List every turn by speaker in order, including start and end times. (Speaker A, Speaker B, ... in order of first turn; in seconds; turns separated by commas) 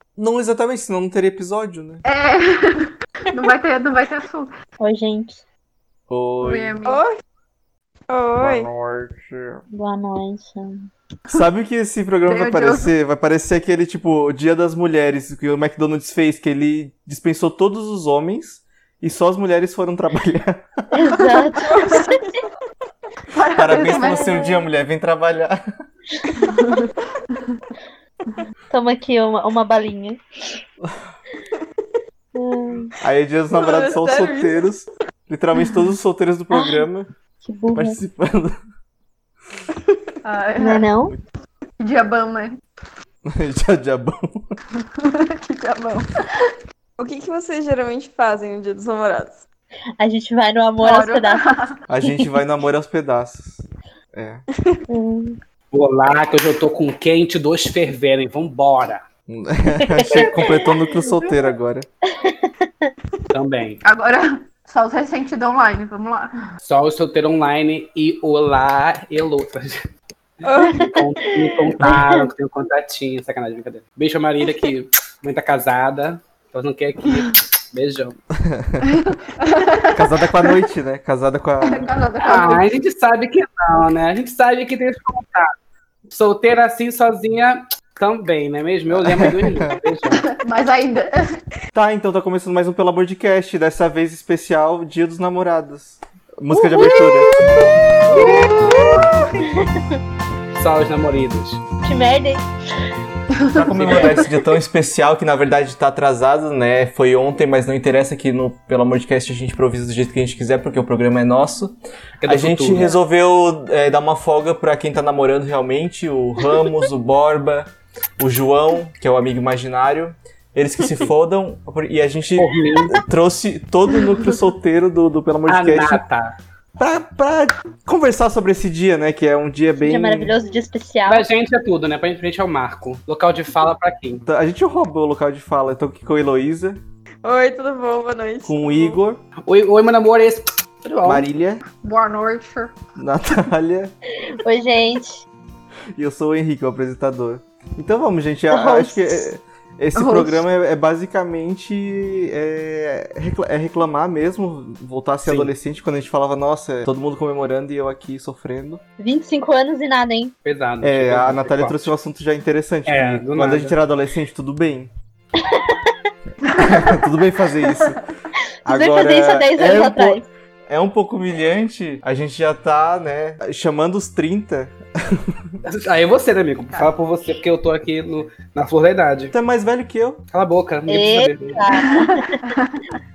Speaker A: 0.2-2.0, Speaker B: 2.1-4.5, Speaker C: 4.8-5.4, Speaker A: 6.1-6.8, Speaker B: 6.4-7.0, Speaker D: 6.8-7.2, Speaker D: 8.1-8.7, Speaker A: 8.4-9.6, Speaker C: 9.7-10.9, Speaker A: 11.3-20.6, Speaker B: 12.3-12.9, Speaker C: 20.9-22.0, Speaker D: 21.6-22.2, Speaker B: 23.3-24.3, Speaker A: 23.6-25.6, Speaker C: 23.9-24.5, Speaker D: 26.4-26.8, Speaker C: 28.7-30.6, Speaker C: 32.3-32.9, Speaker A: 33.0-37.1, Speaker D: 33.5-34.7, Speaker C: 36.5-36.8, Speaker C: 37.4-38.0, Speaker A: 37.7-38.6, Speaker B: 40.2-40.9, Speaker C: 40.6-41.2, Speaker B: 41.8-42.6, Speaker A: 43.2-44.5, Speaker B: 45.0-46.5, Speaker D: 47.0-49.4, Speaker C: 50.0-51.5, Speaker B: 50.8-51.7, Speaker A: 51.9-54.5, Speaker C: 54.9-55.4, Speaker E: 55.7-59.0, Speaker A: 59.3-61.9, Speaker C: 59.8-61.3, Speaker E: 60.0-60.6, Speaker C: 62.2-62.9, Speaker E: 63.3-63.8, Speaker B: 63.8-66.3, Speaker E: 66.6-69.8, Speaker D: 70.4-70.8, Speaker E: 70.5-78.2, Speaker C: 70.8-71.0, Speaker C: 71.7-72.2, Speaker A: 78.5-78.8, Speaker B: 78.9-80.6, Speaker A: 80.0-81.9, Speaker B: 81.6-82.7, Speaker E: 82.2-85.5, Speaker E: 86.1-90.2, Speaker A: 89.2-89.7, Speaker B: 90.3-91.2, Speaker A: 91.7-97.3, Speaker C: 96.5-98.8, Speaker E: 98.1-98.5, Speaker B: 98.3-98.8, Speaker C: 99.6-100.0, Speaker E: 100.6-101.6, Speaker C: 101.8-102.5, Speaker B: 103.4-103.7, Speaker A: 103.5-126.0, Speaker E: 103.8-104.2, Speaker E: 112.2-113.0, Speaker E: 122.4-123.0, Speaker E: 125.5-126.3, Speaker A: 126.8-130.3, Speaker C: 129.8-131.2, Speaker E: 131.1-134.2, Speaker A: 134.2-136.8, Speaker D: 137.2-139.0, Speaker A: 138.4-139.2, Speaker E: 139.4-141.3, Speaker A: 141.0-141.6, Speaker B: 141.8-142.7, Speaker A: 143.0-143.9, Speaker C: 144.4-145.2, Speaker A: 146.0-158.8, Speaker C: 148.5-149.3, Speaker B: 150.0-150.5, Speaker E: 155.2-155.5, Speaker C: 159.0-160.3, Speaker E: 160.4-161.9, Speaker A: 160.8-164.9, Speaker E: 162.9-163.8, Speaker C: 165.4-165.9, Speaker B: 166.5-167.0, Speaker A: 166.6-168.0, Speaker C: 168.7-170.2, Speaker A: 168.7-175.4, Speaker E: 175.7-179.3, Speaker A: 179.3-180.2, Speaker E: 180.3-181.6, Speaker C: 180.9-182.4, Speaker B: 181.8-182.8